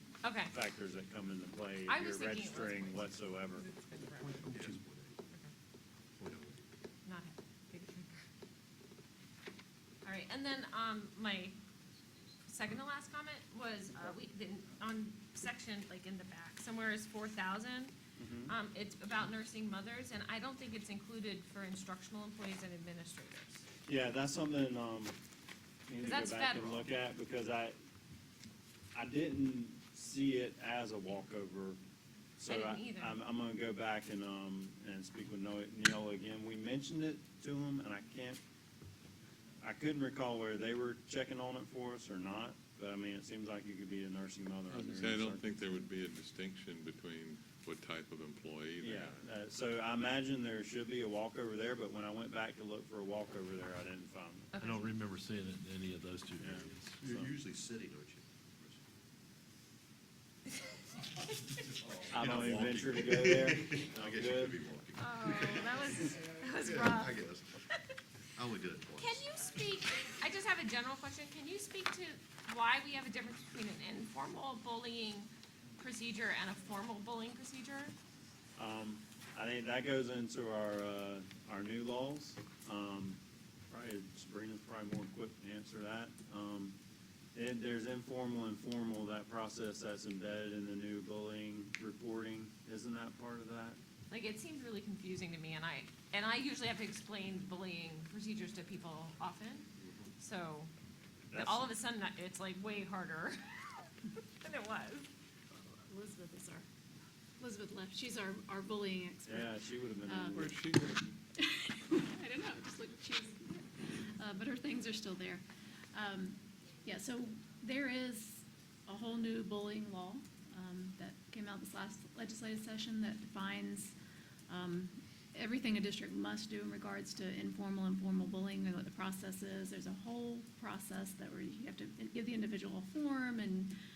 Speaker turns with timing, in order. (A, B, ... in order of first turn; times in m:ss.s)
0:00.2-0:00.6 A
0:00.5-0:03.6 B
0:01.9-0:04.5 A
0:04.1-0:05.2 C
0:06.2-0:06.7 C
0:07.0-0:08.3 A
0:10.0-0:11.6 A
0:12.5-0:17.9 A
0:18.2-0:18.5 B
0:18.5-0:23.6 A
0:23.9-0:25.2 B
0:25.9-0:27.8 B
0:26.0-0:26.9 A
0:28.9-0:31.8 B
0:32.4-0:38.4 B
0:32.5-0:33.2 A
0:39.6-0:45.5 B
0:44.7-0:49.3 D
0:48.8-0:54.5 B
0:54.5-0:54.9 A
0:54.6-0:57.0 E
0:56.4-0:57.3 B
0:57.0-0:58.8 C
1:01.8-1:07.5 C
1:02.1-1:04.6 B
1:05.0-1:07.3 A
1:08.4-1:09.3 C
1:09.0-1:18.0 A
1:18.6-1:26.8 B
1:27.3-1:33.8 B
1:34.1-1:40.7 A
1:39.8-1:40.1 C
1:41.3-1:41.7 B
1:41.3-1:45.1 A
1:45.9-1:46.6 F
1:47.4-1:49.5 F
1:49.2-1:50.5 B
1:50.0-1:50.7 F
1:50.3-1:51.1 D
1:51.4-1:55.4 F
1:55.9-2:03.9 F
2:04.5-2:13.7 F